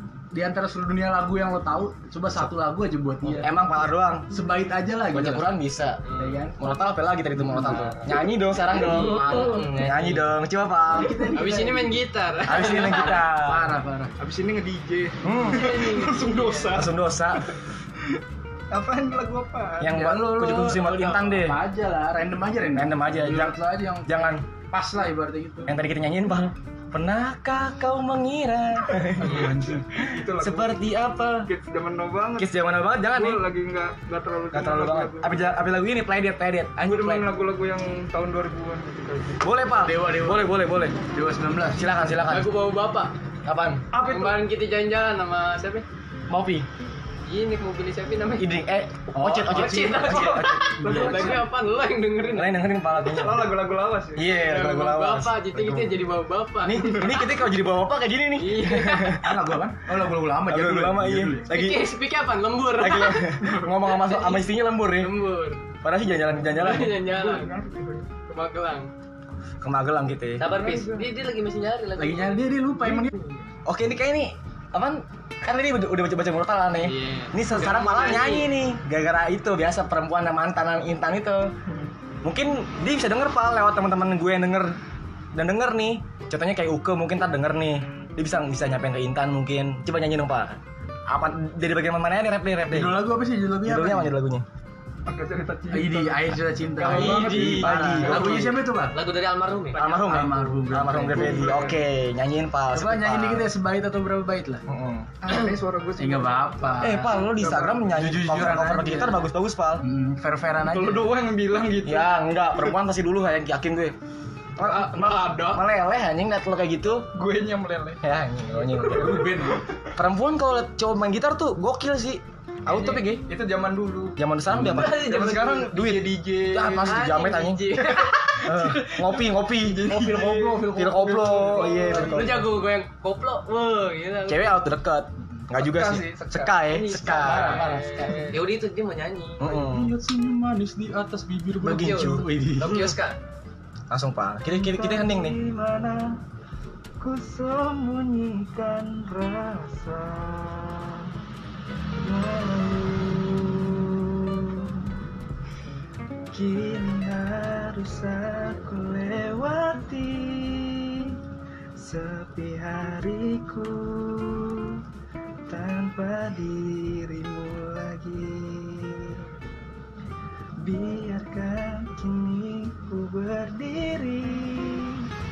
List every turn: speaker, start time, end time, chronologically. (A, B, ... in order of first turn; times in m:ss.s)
0:00.3-0:03.6 A
0:03.4-0:04.3 B
0:04.3-0:05.5 A
0:05.1-0:06.0 B
0:06.0-0:06.4 C
0:06.1-0:06.6 A
0:06.6-0:11.3 B
0:07.4-0:08.0 A
0:08.7-0:10.2 D
0:09.0-0:09.6 E
0:09.0-0:10.1 A
0:10.9-0:12.0 A
0:11.3-0:13.3 C
0:12.5-0:13.7 B
0:12.6-0:14.1 A
0:14.2-0:17.5 E
0:15.2-0:15.8 B
0:15.4-0:16.8 C
0:16.7-0:17.5 B
0:18.7-0:20.1 E
0:19.8-0:21.6 B
0:19.9-0:25.8 A
0:22.8-0:24.4 B
0:25.7-0:31.5 B
0:29.2-0:29.9 A
0:30.0-0:30.8 E
0:31.4-0:35.5 E
0:32.4-0:33.4 B
0:34.5-0:37.3 B
0:36.9-0:39.6 E
0:39.4-0:41.0 B
0:39.8-0:40.5 A
0:41.0-0:41.9 A
0:41.7-0:42.5 B
0:42.3-0:43.1 C
0:43.4-0:43.9 B
0:43.9-0:44.4 E
0:44.0-0:45.8 C
0:46.3-0:46.7 B
0:47.3-0:48.5 C
0:48.4-0:50.7 B
0:49.1-0:50.1 A
0:49.3-0:52.6 C
0:50.8-0:51.4 A
0:50.8-0:51.5 E
0:52.3-0:53.6 B
0:53.1-0:54.3 E
0:54.1-0:55.9 B
0:54.3-0:57.3 C
0:56.6-0:59.4 B
0:58.4-0:59.2 C
0:59.2-1:01.5 A
1:00.5-1:01.9 B
1:01.5-1:05.6 C
1:02.8-1:05.2 B
1:03.4-1:03.7 E
1:05.8-1:07.0 B
1:06.5-1:07.5 C
1:06.6-1:08.1 E
1:08.3-1:08.9 C
1:09.6-1:10.5 B
1:10.4-1:12.6 D
1:10.5-1:11.1 E
1:12.0-1:13.1 A
1:12.8-1:13.5 E
1:13.7-1:21.5 B
1:16.8-1:18.5 C
1:22.2-1:24.8 B
1:25.4-1:33.0 B
1:32.7-1:34.1 A
1:33.6-1:34.4 B
1:35.1-1:38.5 E
1:35.7-1:39.0 A
1:36.8-1:38.6 B
1:37.2-1:37.6 C
1:38.9-1:40.0 D
1:39.7-1:41.8 E
1:39.8-1:43.5 B
1:40.0-1:41.6 A
1:42.7-1:44.6 A
1:44.7-1:45.1 B
1:45.2-1:48.2 E
1:46.0-1:47.2 A
1:46.8-1:49.8 B
1:47.9-1:49.2 A
1:49.8-1:51.2 A
1:50.6-1:52.7 E
1:51.8-1:54.0 B
1:54.6-1:57.1 B
1:54.6-1:55.6 C
1:57.1-1:58.0 E
1:58.0-1:59.3 B
1:58.6-1:59.6 E
1:58.9-1:59.6 A
2:00.0-2:03.2 B
2:02.7-2:07.0 E
2:04.2-2:07.7 B
2:04.5-2:04.9 A
2:04.7-2:05.6 C
2:06.8-2:09.2 C
2:08.4-2:09.9 B
2:09.6-2:12.2 E
2:09.8-2:12.4 A
2:10.7-2:12.4 B
2:11.9-2:14.6 C
2:14.3-2:17.6 B
2:15.6-2:16.8 E
2:16.7-2:18.4 C
2:17.1-2:18.4 A
2:18.0-2:18.3 E
2:18.3-2:19.6 D
2:19.4-2:19.9 B
2:19.6-2:23.0 A
2:21.6-2:22.3 B
2:21.6-2:23.2 C
2:22.6-2:22.9 D
2:23.9-2:25.4 B
2:24.5-2:26.2 E
2:27.0-2:31.1 E
2:32.0-2:34.9 E
2:36.3-2:41.2 E
2:41.8-2:44.8 E
2:45.5-2:49.2 E
2:50.6-2:55.1 E